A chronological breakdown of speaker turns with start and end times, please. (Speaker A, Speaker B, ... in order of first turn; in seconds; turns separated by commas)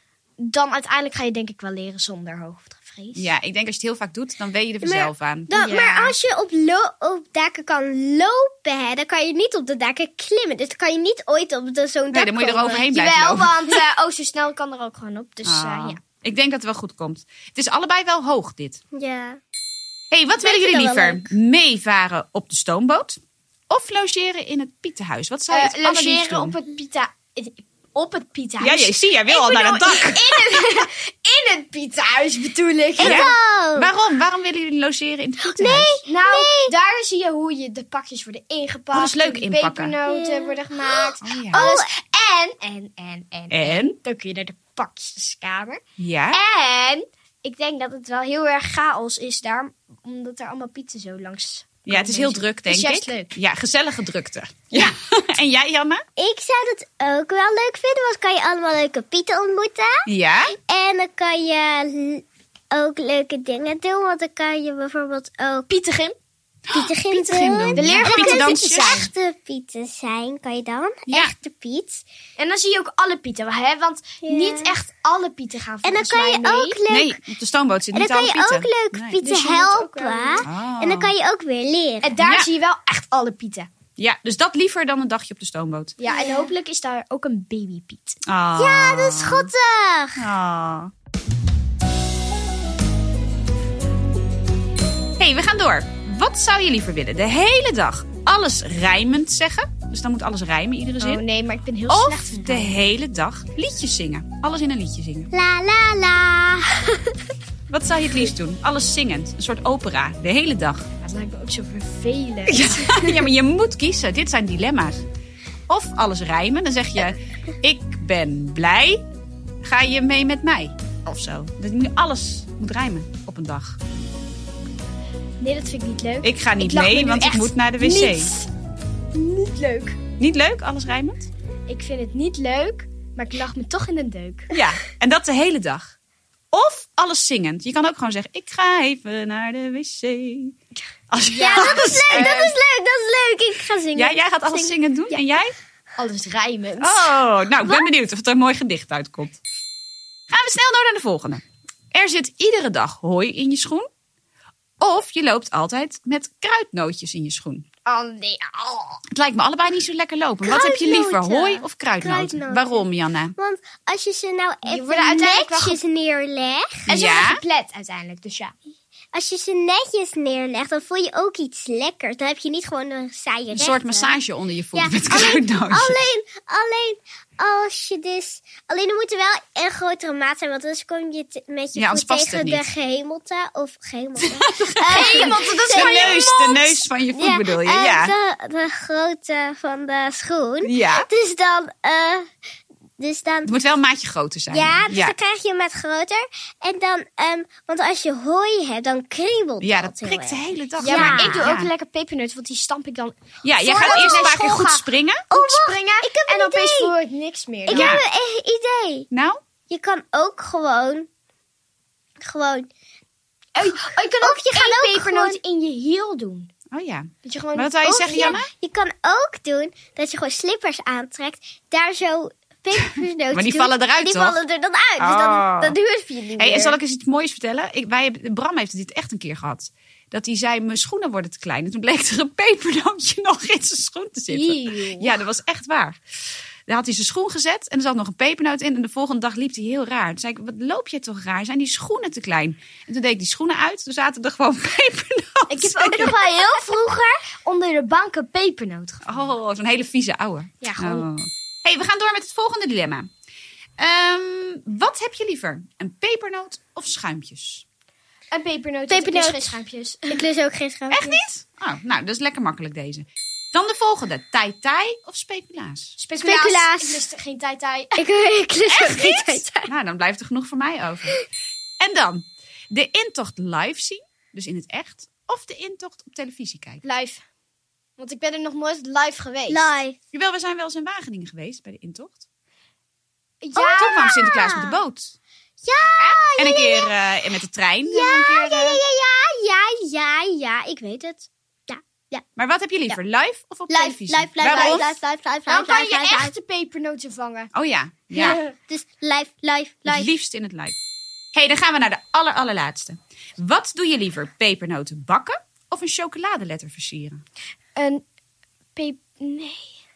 Speaker A: 0.4-3.3, Speaker B: 3.1-5.5, Speaker C: 4.8-12.9, Speaker A: 5.5-6.2, Speaker B: 12.1-13.6, Speaker A: 12.9-16.0, Speaker B: 15.4-18.8, Speaker C: 18.9-19.4, Speaker B: 20.1-23.2, Speaker C: 20.4-21.3, Speaker B: 23.7-26.6, Speaker A: 25.5-33.2, Speaker B: 28.6-30.6, Speaker C: 33.0-33.9, Speaker B: 33.0-36.0, Speaker C: 35.5-36.7, Speaker A: 36.1-45.8, Speaker B: 38.9-40.0, Speaker C: 40.1-41.9, Speaker B: 41.2-41.6, Speaker B: 43.5-44.0, Speaker B: 46.0-46.4, Speaker A: 46.3-53.4, Speaker B: 51.9-56.0, Speaker C: 56.2-60.0, Speaker B: 60.1-60.6, Speaker C: 60.7-65.7, Speaker A: 65.7-66.2, Speaker B: 66.7-69.1, Speaker C: 66.7-72.0, Speaker A: 67.8-69.1, Speaker B: 71.1-71.3, Speaker A: 72.4-76.8, Speaker C: 74.2-74.8, Speaker C: 75.8-77.2, Speaker B: 76.9-79.2, Speaker C: 77.9-82.2, Speaker A: 79.2-80.5, Speaker B: 80.5-81.1, Speaker A: 82.0-83.7, Speaker B: 82.2-82.5, Speaker B: 84.0-86.0, Speaker A: 86.0-88.2, Speaker C: 86.1-86.5, Speaker B: 88.3-89.5, Speaker C: 88.5-90.2, Speaker B: 90.2-90.9, Speaker B: 95.2-101.2, Speaker A: 101.0-102.8, Speaker B: 101.9-105.3, Speaker C: 105.3-107.2, Speaker B: 107.7-110.9, Speaker A: 111.0-113.3, Speaker B: 112.5-115.0, Speaker B: 115.7-119.0, Speaker B: 119.6-123.8, Speaker A: 125.4-128.5, Speaker B: 126.2-128.3, Speaker A: 129.1-130.0, Speaker B: 130.2-131.3, Speaker A: 131.7-134.5, Speaker B: 134.5-135.9, Speaker B: 136.5-140.6, Speaker B: 141.1-142.4, Speaker A: 141.4-142.6, Speaker C: 141.4-145.2, Speaker B: 143.9-145.5, Speaker A: 146.0-147.1, Speaker B: 146.8-149.4, Speaker C: 147.6-147.9, Speaker B: 150.3-153.9, Speaker B: 154.8-157.7, Speaker A: 157.9-159.0, Speaker B: 159.1-163.3, Speaker C: 160.4-166.8, Speaker A: 164.7-165.8, Speaker A: 166.9-168.6, Speaker B: 166.9-167.4, Speaker C: 169.1-174.2, Speaker B: 173.5-176.0, Speaker C: 174.7-192.3, Speaker B: 181.8-182.7, Speaker B: 184.2-188.1, Speaker A: 184.8-186.2, Speaker B: 190.6-191.1, Speaker C: 193.0-193.5, Speaker B: 193.4-195.1, Speaker C: 194.5-201.5, Speaker B: 199.6-201.7, Speaker A: 200.8-204.9, Speaker B: 203.4-205.3, Speaker C: 203.8-204.4, Speaker C: 205.3-206.9, Speaker A: 205.4-208.0, Speaker C: 207.7-209.1, Speaker B: 207.7-208.0, Speaker B: 209.1-209.4, Speaker C: 209.7-211.1, Speaker C: 212.2-212.7, Speaker A: 213.6-216.5, Speaker C: 213.6-215.4, Speaker B: 216.7-218.5, Speaker A: 217.2-218.3, Speaker C: 218.0-226.8, Speaker B: 223.3-224.4, Speaker B: 225.0-225.8, Speaker B: 226.4-236.0, Speaker A: 234.3-235.2, Speaker B: 236.7-246.2, Speaker A: 245.5-249.4, Speaker B: 249.1-253.1, Speaker A: 250.6-251.1, Speaker B: 253.8-257.6, Speaker A: 258.3-260.2, Speaker C: 258.9-261.1, Speaker B: 260.9-266.0, Speaker A: 266.0-268.0, Speaker C: 266.2-267.0, Speaker C: 267.9-269.7, Speaker B: 268.7-271.2, Speaker B: 271.8-276.8, Speaker A: 276.8-277.2, Speaker A: 278.0-279.8, Speaker C: 279.5-280.0, Speaker B: 280.1-282.2, Speaker A: 283.4-284.1, Speaker C: 283.6-284.7, Speaker B: 283.6-285.2, Speaker C: 285.6-286.9, Speaker B: 286.4-288.8, Speaker C: 287.9-292.2, Speaker B: 292.4-294.9, Speaker C: 293.7-296.3, Speaker A: 295.5-297.5, Speaker B: 297.5-298.4, Speaker C: 298.2-300.1, Speaker B: 299.9-300.8, Speaker B: 301.3-307.2, Speaker A: 307.8-308.0, Speaker A: 308.8-309.7